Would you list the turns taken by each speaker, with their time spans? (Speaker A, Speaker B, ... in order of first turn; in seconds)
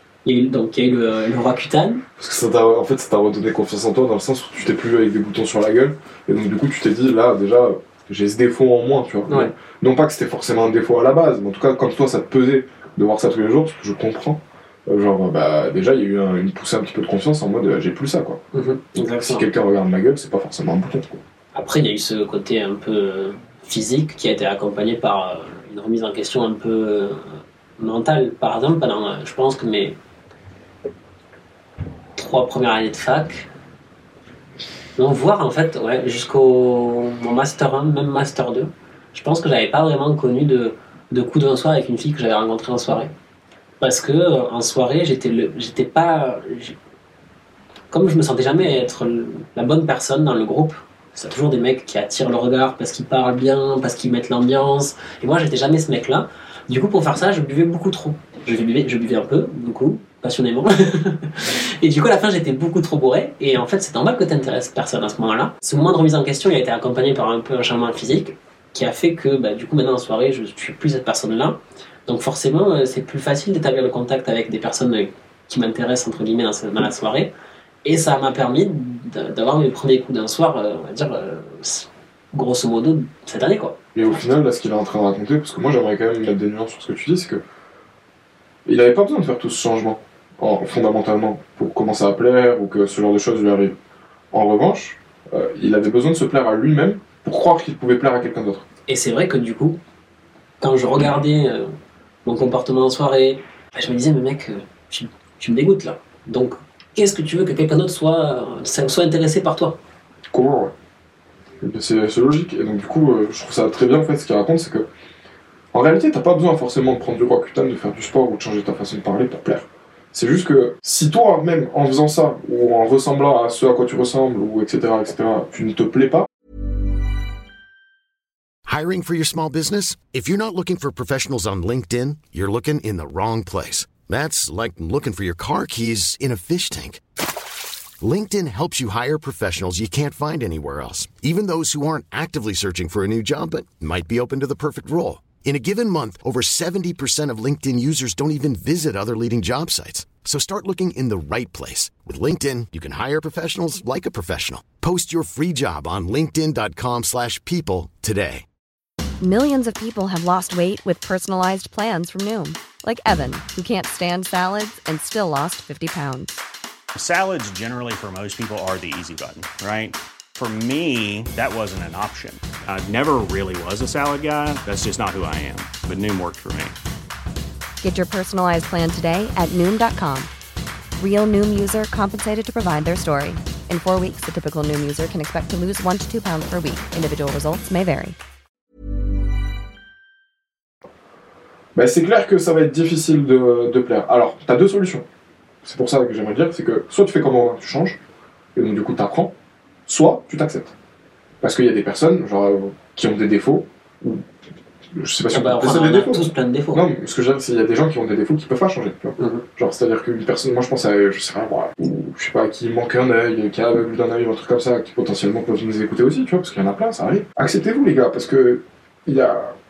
Speaker A: 0.2-2.0, 18.5-19.4, 21.5-30.0, 32.1-33.5, 35.0-43.1, 43.8-46.8, 47.9-77.3, 77.8-83.8, 98.9-99.8, 100.6-101.7, 102.2-109.8, 205.3-206.9, 209.2-209.4
Speaker B: 2.2-18.4, 19.2-21.2, 83.9-87.4, 88.7-93.7, 94.3-98.6, 110.3-110.7, 111.6-114.9, 115.7-126.3, 191.7-195.0, 195.6-198.0, 198.5-199.3, 199.9-200.7, 201.4-204.2, 204.9-219.5
Speaker C: 128.7-137.0, 138.0-158.4
Speaker D: 159.2-166.4, 177.8-180.3, 181.0-188.2
Speaker E: 166.9-176.8